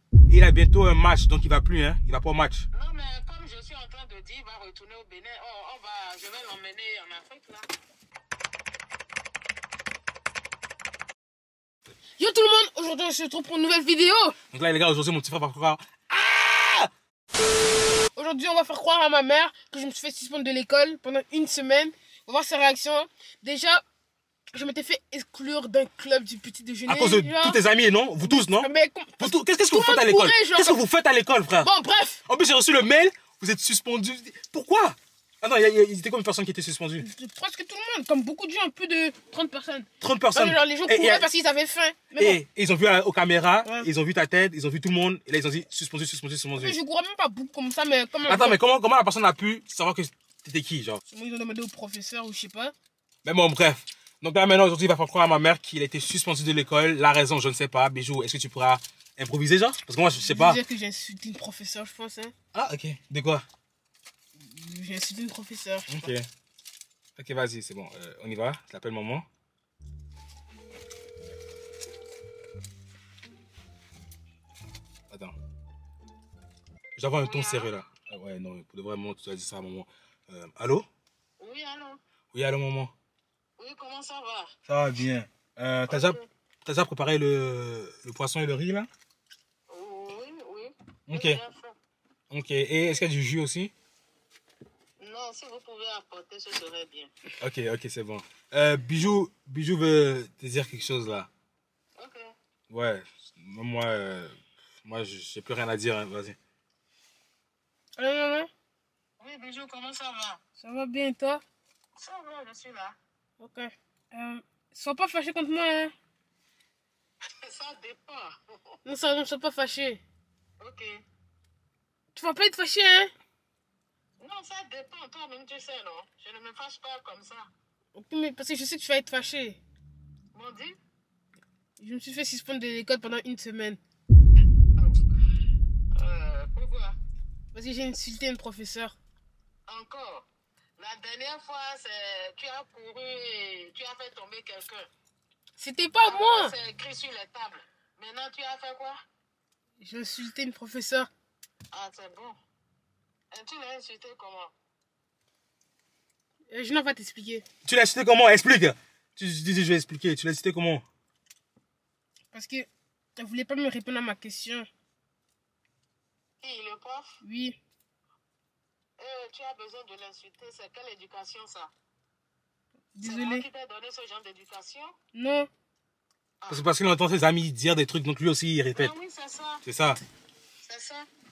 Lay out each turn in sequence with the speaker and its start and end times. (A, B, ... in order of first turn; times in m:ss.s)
0:00.3-0:02.7 A
0:02.7-0:07.6 B
0:12.2-0:14.4 C
0:14.5-0:16.9 A
0:18.2-0:23.8 C
0:24.5-0:27.6 C
0:26.9-0:28.7 A
0:28.2-0:30.8 C
0:29.2-0:31.7 A
0:31.6-0:32.2 C
0:32.3-0:37.1 A
0:37.0-0:42.4 C
0:40.0-0:41.3 A
0:42.2-0:46.8 A
0:46.6-0:48.6 C
0:48.3-0:51.0 A
0:51.1-0:52.7 C
0:53.2-1:00.6 A
1:00.2-1:02.3 C
1:02.5-1:03.4 A
1:04.4-1:06.1 C
1:05.9-1:06.3 A
1:07.2-1:09.3 A
1:17.0-1:20.9 A
1:17.2-1:17.7 B
1:21.4-1:22.0 B
1:22.3-1:22.9 A
1:23.6-1:24.5 B
1:24.7-1:28.9 A
1:25.9-1:26.3 B
1:29.7-1:31.8 B
1:31.1-1:31.4 A
1:32.3-1:33.7 A
1:35.0-1:37.1 B
1:37.4-1:41.3 A
1:42.0-1:42.3 B
1:42.7-1:46.4 A
1:48.0-1:48.5 C
1:49.2-1:50.4 B
1:50.6-1:51.4 C
1:52.0-1:53.0 B
1:53.4-1:55.9 C
1:57.4-1:58.4 B
1:58.8-2:00.0 C
2:00.6-2:01.0 B
2:02.1-2:03.1 C
2:04.2-2:07.5 B
2:08.0-2:09.6 C
2:10.3-2:10.8 B
2:11.8-2:13.8 C
2:16.0-2:17.0 B
2:17.5-2:19.0 C
2:19.7-2:20.3 B
2:20.8-2:24.9 B
2:25.6-2:26.6 C
2:26.1-2:29.0 B
2:29.8-2:31.1 C
2:31.7-2:32.4 B
2:33.3-2:34.5 B
2:36.5-2:37.4 C
2:37.6-2:40.8 A
2:42.3-2:44.7 C
2:46.4-2:47.2 B
2:47.2-2:47.6 C
2:49.0-2:51.7 B
2:53.0-2:53.4 C
2:53.0-2:54.9 B
2:55.1-2:55.5 C
2:56.4-2:56.7 B
2:56.5-2:58.9 A
2:58.8-2:59.6 B
2:59.6-3:00.0 A
3:00.6-3:01.1 B